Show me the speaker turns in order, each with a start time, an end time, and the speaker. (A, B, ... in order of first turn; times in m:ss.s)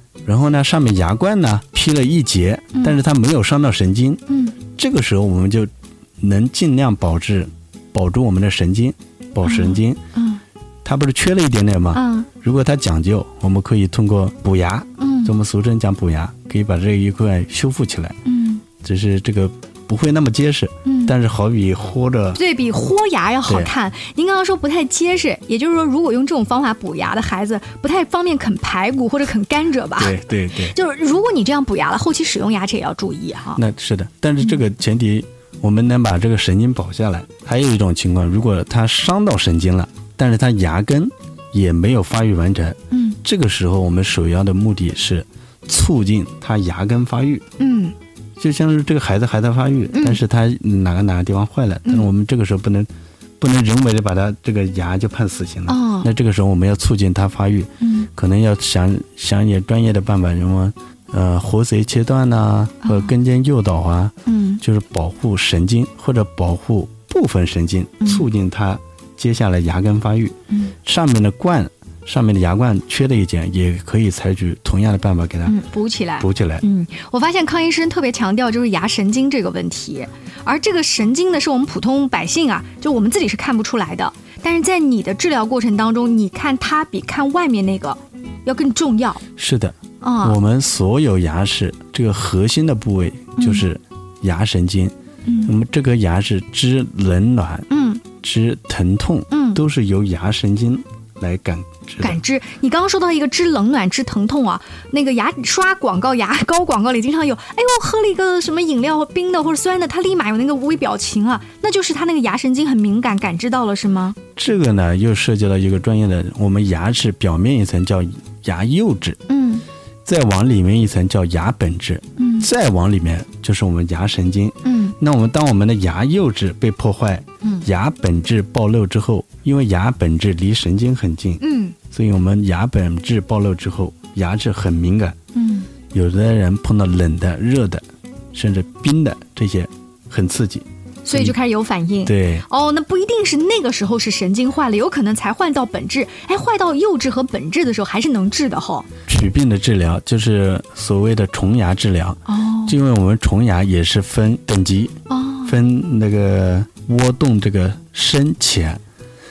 0:00.2-0:04.2 A
0:04.3-0:04.6 B
0:04.8-0:10.0 A
0:09.4-0:10.4 B
0:10.8-0:18.2 A
0:11.9-0:12.3 B
0:15.0-0:15.3 B
0:18.2-0:18.6 B
0:18.8-0:22.4 A
0:20.8-0:21.1 B
0:22.3-0:33.6 B
0:30.0-0:30.8 A
0:33.5-0:47.4 A
0:42.9-0:43.2 B
0:47.6-0:47.9 B
0:48.4-1:15.6 A
0:49.9-0:50.2 B
0:55.7-0:56.1 B
0:57.8-0:58.1 B
1:02.8-1:03.1 B
1:04.2-1:04.6 B
1:08.0-1:08.3 B
1:15.4-1:29.2 B
1:16.2-1:16.6 A
1:29.4-1:34.9 A
1:30.0-1:30.4 B
1:33.4-1:33.6 B
1:35.2-1:35.5 B
1:35.4-1:37.7 A
1:37.7-1:38.0 B
1:38.2-1:42.2 A
1:39.3-1:39.6 B
1:42.0-1:54.2 B
1:54.4-1:59.2 A
1:59.3-1:59.6 B
2:00.0-2:15.2 A
2:02.2-2:02.5 B
2:04.6-2:05.0 B
2:07.4-2:07.7 B
2:11.4-2:11.8 B
2:15.3-2:15.7 B
2:15.9-2:21.3 A
2:21.0-2:28.9 B
2:22.0-2:22.4 A
2:29.1-2:38.8 A
2:32.3-2:32.8 B
2:35.1-2:35.6 B